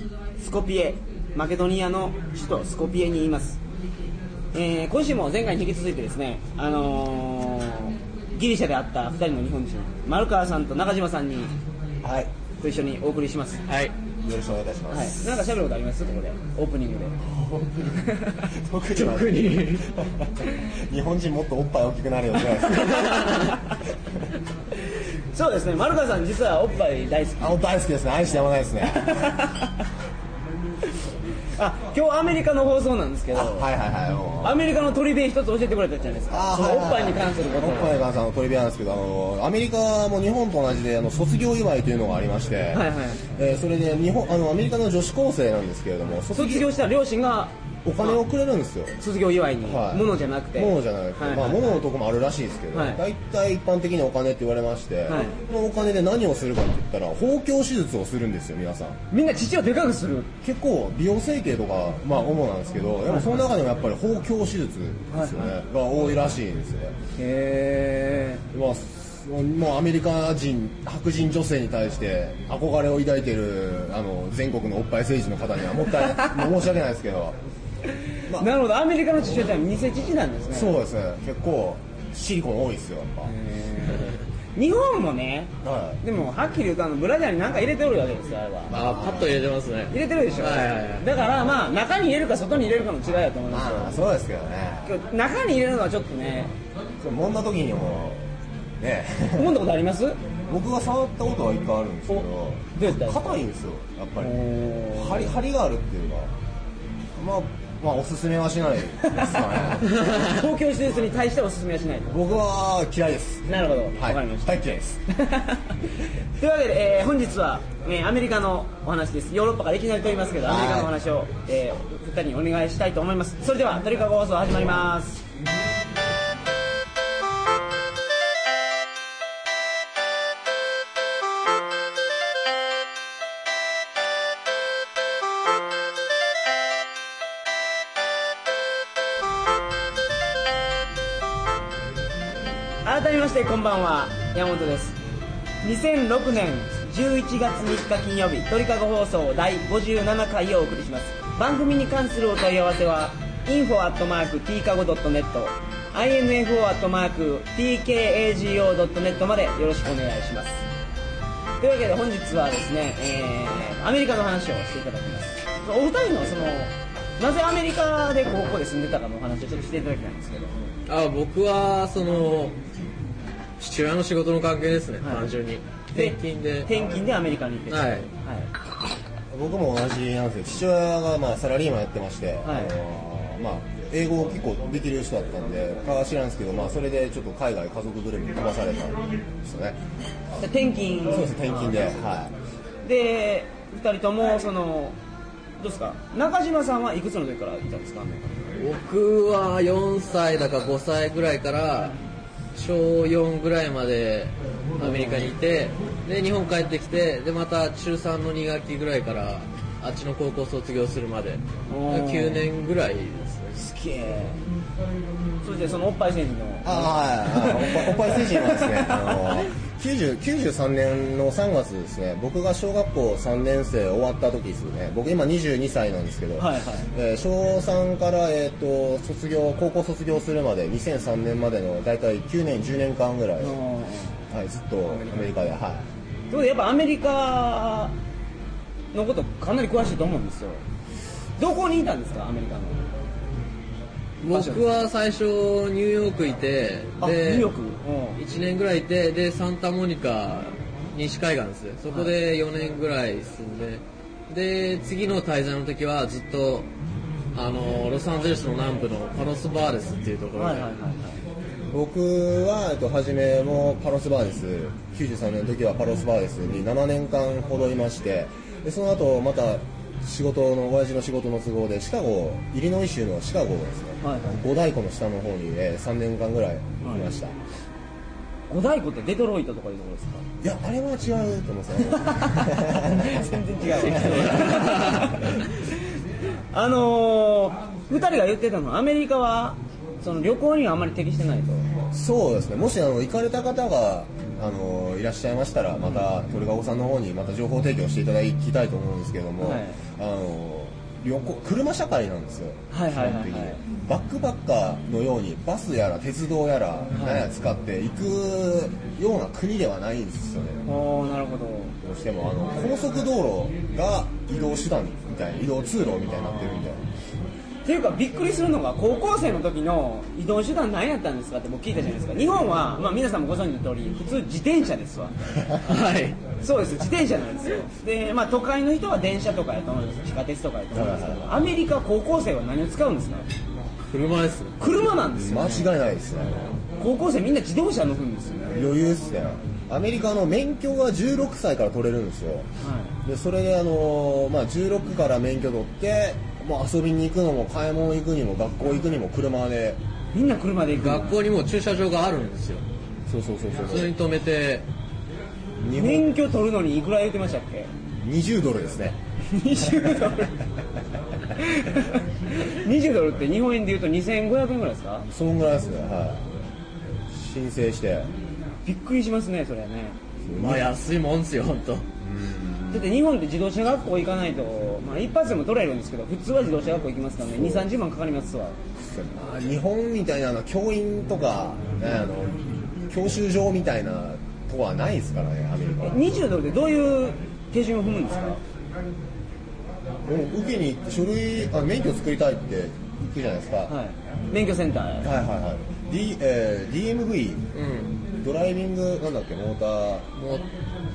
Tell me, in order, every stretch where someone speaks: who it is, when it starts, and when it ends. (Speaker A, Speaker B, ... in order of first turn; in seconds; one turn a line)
Speaker A: 0.4-3.6
Speaker A: 4.5-11.5
Speaker B: 12.0-12.3
Speaker A: 12.6-13.7
Speaker C: 13.7-13.9
Speaker B: 14.2-15.3
Speaker A: 14.9-17.2
Speaker B: 17.2-23.5
Speaker C: 18.9-19.9
Speaker C: 22.9-23.5
Speaker A: 25.3-27.6
Speaker B: 27.4-29.4
Speaker A: 29.1-29.7
Speaker A: 31.6-33.7
Speaker B: 33.3-34.6
Speaker A: 34.4-38.0
Speaker B: 36.3-46.7
Speaker A: 42.7-43.4
Speaker A: 46.3-48.2
Speaker B: 47.9-49.0
Speaker A: 49.0-51.8
Speaker B: 49.6-59.0
Speaker A: 52.7-53.0
Speaker A: 55.1-55.4
Speaker A: 59.1-60.3
Speaker B: 60.4-67.0
Speaker A: 63.1-63.4
Speaker A: 65.1-65.5
Speaker A: 67.2-68.4
Speaker B: 68.5-77.4
Speaker A: 78.3-80.8
Speaker B: 80.5-83.3
Speaker A: 83.2-88.8
Speaker B: 85.6-86.0
Speaker B: 88.7-89.5
Speaker C: 88.7-91.1
Speaker A: 89.9-94.0
Speaker B: 93.5-94.9
Speaker A: 94.9-96.5
Speaker B: 97.0-99.6
Speaker A: 99.4-100.2
Speaker B: 100.5-104.4
Speaker A: 102.1-103.4
Speaker A: 104.2-105.4
Speaker B: 104.9-106.3
Speaker B: 107.2-110.1
Speaker A: 109.0-112.2
Speaker B: 112.1-115.0
Speaker A: 113.5-114.6
Speaker A: 115.1-125.2
Speaker B: 120.5-120.9
Speaker A: 142.8-145.0
Speaker A: 145.6-160.6
Speaker A: 161.6-170.6
Speaker C: 170.9-172.6
Speaker C: 173.6-176.7
Speaker A: 175.0-175.4
Speaker A: 175.9-178.5
Speaker C: 177.7-178.1
Speaker B: 179.3-189.8
Speaker A: 182.4-182.8
Speaker A: 190.4-191.5
Speaker B: 191.1-192.4
Speaker A: 192.8-195.0
Speaker A: 195.6-198.4
Speaker C: 198.6-202.0
Speaker C: 202.6-213.6
Speaker A: 204.8-205.3
Speaker A: 211.7-212.5
Speaker A: 213.5-214.4
Speaker A: 215.4-219.4
Speaker B: 216.6-233.6
Speaker A: 226.4-226.9
Speaker A: 233.4-234.2
Speaker B: 234.3-235.9
Speaker A: 234.9-235.3
Speaker A: 236.3-238.0
Speaker A: 238.9-240.6
Speaker A: 241.4-242.9
Speaker A: 244.2-244.9
Speaker C: 244.2-247.5
Speaker A: 247.0-248.2
Speaker C: 248.2-256.7
Speaker A: 251.9-252.1
Speaker C: 257.3-260.7
Speaker A: 260.4-261.2
Speaker B: 261.7-277.4
Speaker A: 274.0-274.4
Speaker A: 278.5-280.3
Speaker B: 280.4-284.7
Speaker A: 282.0-285.8
Speaker C: 283.7-285.2
Speaker A: 286.5-291.7
Speaker B: 291.9-310.6
Speaker A: 299.4-299.8
Speaker A: 302.7-303.6
Speaker A: 307.0-307.3
Speaker A: 310.6-311.8
Speaker B: 311.8-316.9
Speaker A: 317.6-325.2
Speaker C: 325.6-326.2
Speaker A: 326.4-333.3
Speaker B: 330.7-331.4
Speaker C: 333.9-334.6
Speaker A: 334.6-335.7
Speaker B: 335.1-336.6
Speaker A: 336.8-338.6
Speaker B: 338.5-342.5
Speaker A: 342.6-342.9
Speaker B: 343.0-349.8
Speaker A: 350.1-351.3
Speaker C: 350.8-352.6
Speaker B: 353.1-353.9
Speaker C: 353.6-354.7
Speaker B: 355.6-356.1
Speaker A: 355.7-357.7
Speaker B: 358.0-359.0
Speaker A: 359.3-360.4
Speaker A: 361.4-365.1
Speaker B: 365.1-366.4
Speaker B: 367.1-368.1
Speaker A: 368.6-370.0
Speaker B: 370.2-370.7
Speaker C: 370.4-371.9
Speaker B: 372.0-372.9
Speaker A: 372.7-378.6
Speaker B: 377.3-377.7
Speaker B: 378.8-386.0
Speaker A: 385.8-388.4
Speaker B: 390.1-393.8
Speaker A: 393.7-395.1
Speaker B: 395.0-397.5
Speaker C: 397.5-398.0
Speaker B: 398.1-400.1
Speaker C: 400.2-400.5